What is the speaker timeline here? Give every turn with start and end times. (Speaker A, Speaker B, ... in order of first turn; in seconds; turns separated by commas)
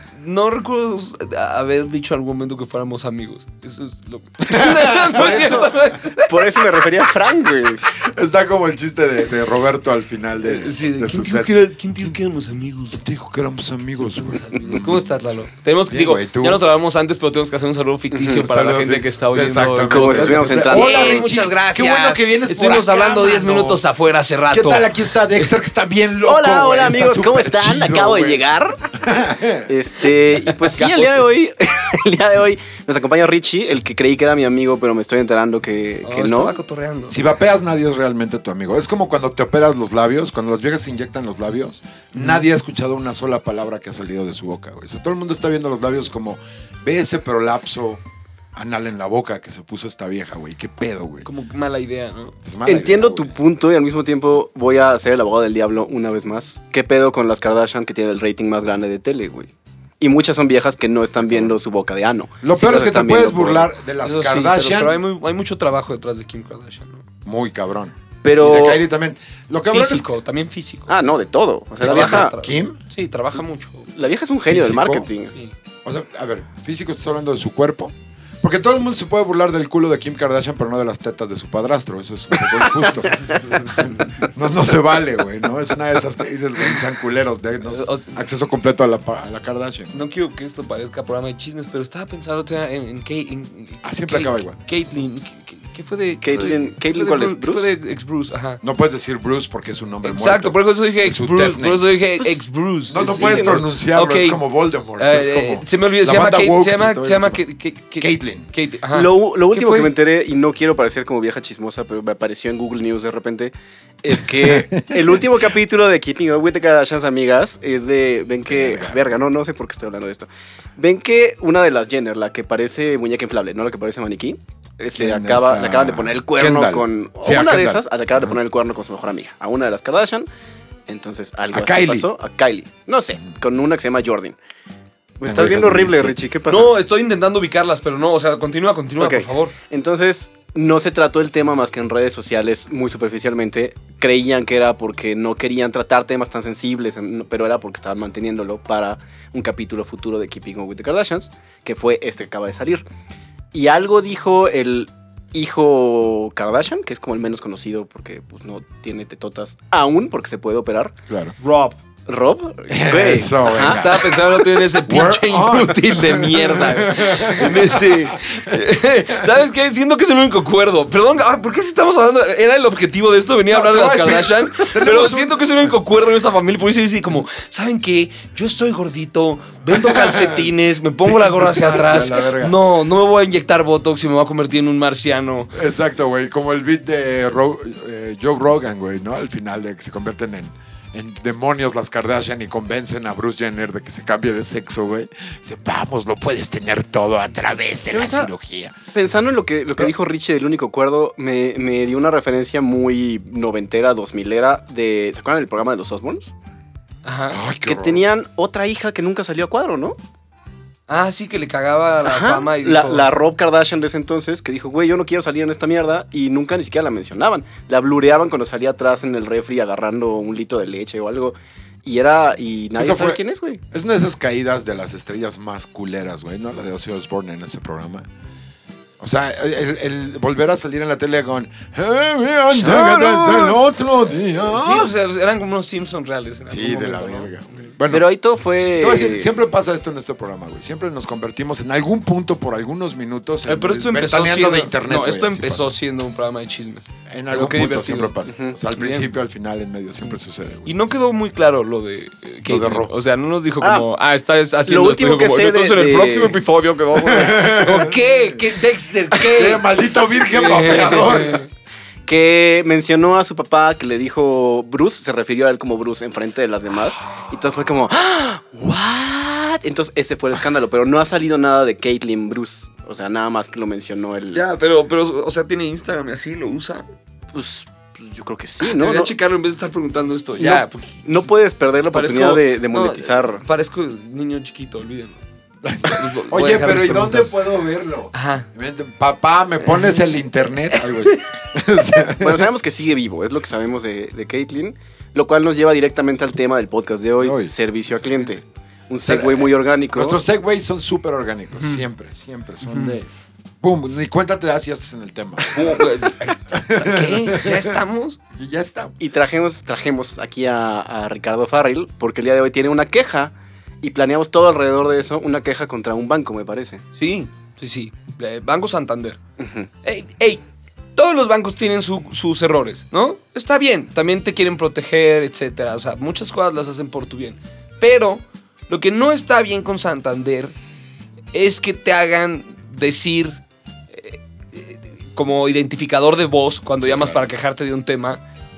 Speaker A: 0.1-6.7, Speaker B: 4.4-5.6, Speaker C: 5.1-7.8, Speaker B: 8.0-12.2, Speaker A: 10.4-13.0, Speaker B: 12.9-15.1, Speaker A: 14.1-25.5, Speaker B: 15.9-16.6, Speaker C: 18.1-18.4, Speaker B: 18.4-23.8, Speaker C: 19.9-21.3, Speaker B: 24.5-29.7, Speaker C: 26.3-28.8, Speaker C: 29.7-36.6, Speaker A: 30.5-31.2, Speaker A: 36.0-37.2, Speaker B: 37.1-48.0, Speaker A: 42.1-42.4, Speaker B: 48.5-51.3, Speaker A: 51.2-52.3, Speaker B: 52.4-53.4, Speaker C: 52.6-63.7, Speaker B: 61.2-61.5, Speaker B: 62.4-65.0, Speaker A: 64.0-67.0, Speaker B: 67.2-70.1, Speaker C: 68.2-68.8, Speaker A: 69.7-70.9, Speaker C: 70.9-72.3, Speaker B: 71.8-72.8, Speaker A: 71.8-73.9, Speaker C: 74.0-75.3, Speaker B: 74.5-75.1, Speaker B: 75.8-90.0, Speaker C: 82.5-83.4, Speaker A: 83.5-83.8, Speaker A: 87.6-88.2, Speaker A: 89.9-98.6, Speaker B: 93.8-94.6, Speaker C: 96.2-97.7, Speaker B: 98.6-101.8, Speaker A: 100.0-104.4, Speaker C: 102.2-102.4, Speaker B: 102.9-107.4, Speaker C: 102.9-103.6, Speaker A: 105.0-109.9, Speaker B: 108.0-108.5, Speaker C: 108.9-130.3, Speaker B: 114.4-115.2, Speaker B: 118.5-119.0, Speaker B: 124.9-128.3, Speaker C: 130.9-134.3, Speaker B: 131.5-132.1, Speaker C: 135.2-136.7, Speaker B: 135.2-136.2, Speaker A: 136.5-139.5, Speaker C: 139.0-152.8, Speaker C: 153.5-160.9, Speaker B: 161.1-161.3, Speaker A: 161.4-161.8, Speaker C: 162.1-164.1, Speaker B: 162.7-164.2, Speaker A: 163.6-185.5, Speaker B: 164.8-169.3, Speaker B: 173.5-175.5, Speaker B: 179.7-180.5, Speaker B: 181.1-182.6, Speaker B: 185.5-198.7, Speaker C: 197.9-198.3, Speaker C: 198.9-206.3, Speaker A: 207.0-207.4, Speaker B: 207.3-208.1, Speaker C: 207.7-209.9, Speaker A: 210.9-213.1, Speaker C: 212.0-223.6, Speaker B: 222.8-223.2, Speaker B: 223.7-228.1, Speaker B: 229.0-234.9, Speaker A: 232.5-233.6, Speaker A: 234.4-237.7, Speaker B: 236.5-238.1, Speaker C: 237.9-239.3, Speaker B: 238.8-245.7, Speaker A: 243.4-248.1, Speaker B: 247.1-250.7, Speaker C: 248.2-248.6, Speaker A: 248.8-249.1, Speaker A: 250.7-259.6, Speaker B: 252.5-252.9, Speaker C: 253.6-253.9, Speaker C: 254.7-256.5, Speaker B: 257.1-258.1, Speaker B: 259.2-261.4, Speaker A: 260.3-261.5, Speaker C: 262.1-274.4, Speaker A: 274.3-276.8, Speaker C: 277.3-279.1, Speaker A: 278.6-281.0, Speaker C: 280.4-283.4, Speaker A: 281.9-285.2, Speaker B: 285.6-292.5, Speaker A: 285.8-287.4, Speaker A: 288.1-288.5, Speaker A: 289.6-290.0, Speaker A: 290.8-291.2, Speaker C: 292.2-300.2, Speaker B: 297.2-297.5, Speaker B: 299.0-303.1, Speaker A: 302.7-302.9, Speaker B: 303.6-305.8, Speaker A: 305.5-308.2, Speaker B: 306.5-307.8, Speaker B: 308.3-308.9, Speaker C: 309.0-316.8, Speaker A: 316.9-319.2, Speaker C: 319.4-319.7, Speaker A: 319.8-320.4, Speaker A: 320.9-330.5, Speaker A: 331.3-333.4, Speaker A: 333.9-338.2, Speaker B: 336.8-337.3